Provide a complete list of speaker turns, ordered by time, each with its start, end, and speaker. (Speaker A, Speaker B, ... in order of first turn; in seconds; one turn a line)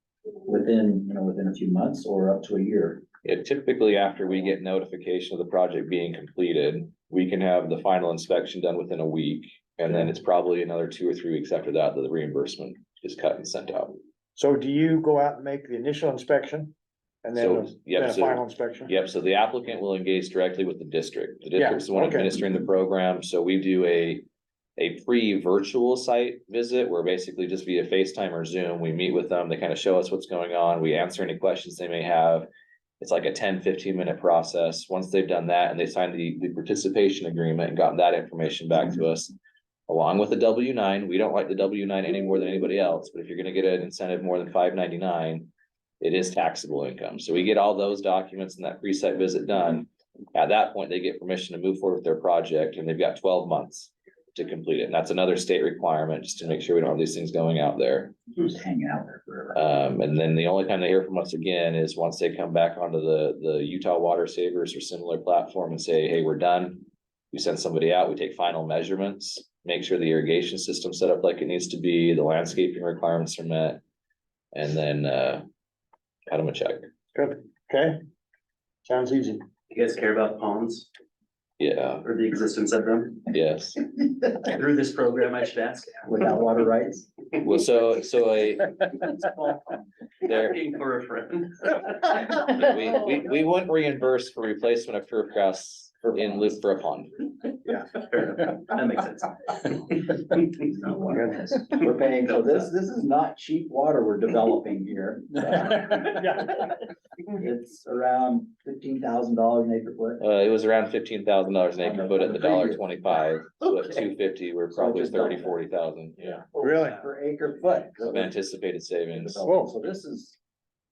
Speaker A: 0.4-3.0
Speaker B: 3.2-14.0
Speaker C: 14.3-18.9
Speaker B: 17.4-32.5
Speaker C: 21.5-22.3
Speaker B: 33.0-39.3
Speaker B: 39.9-45.5
Speaker B: 46.0-58.1
Speaker A: 58.3-59.6
Speaker B: 59.5-73.8
Speaker B: 74.5-75.4
Speaker B: 76.3-76.8
Speaker C: 77.1-78.0
Speaker C: 78.8-79.4
Speaker D: 79.7-80.9
Speaker B: 81.6-82.0
Speaker D: 82.0-83.3
Speaker B: 83.3-83.8
Speaker D: 84.3-86.1
Speaker A: 86.1-87.1
Speaker B: 87.4-89.0
Speaker B: 90.2-90.7
Speaker D: 90.2-92.5
Speaker B: 92.4-97.3
Speaker D: 98.0-100.6
Speaker A: 101.1-106.7
Speaker C: 106.1-106.5
Speaker A: 107.3-110.2
Speaker B: 110.2-116.4
Speaker A: 111.8-112.9
Speaker A: 113.7-114.0
Speaker A: 114.7-115.6
Speaker A: 116.3-118.4
Speaker C: 116.5-117.0
Speaker B: 118.0-119.4
Speaker A: 119.1-120.4
Speaker C: 119.4-119.7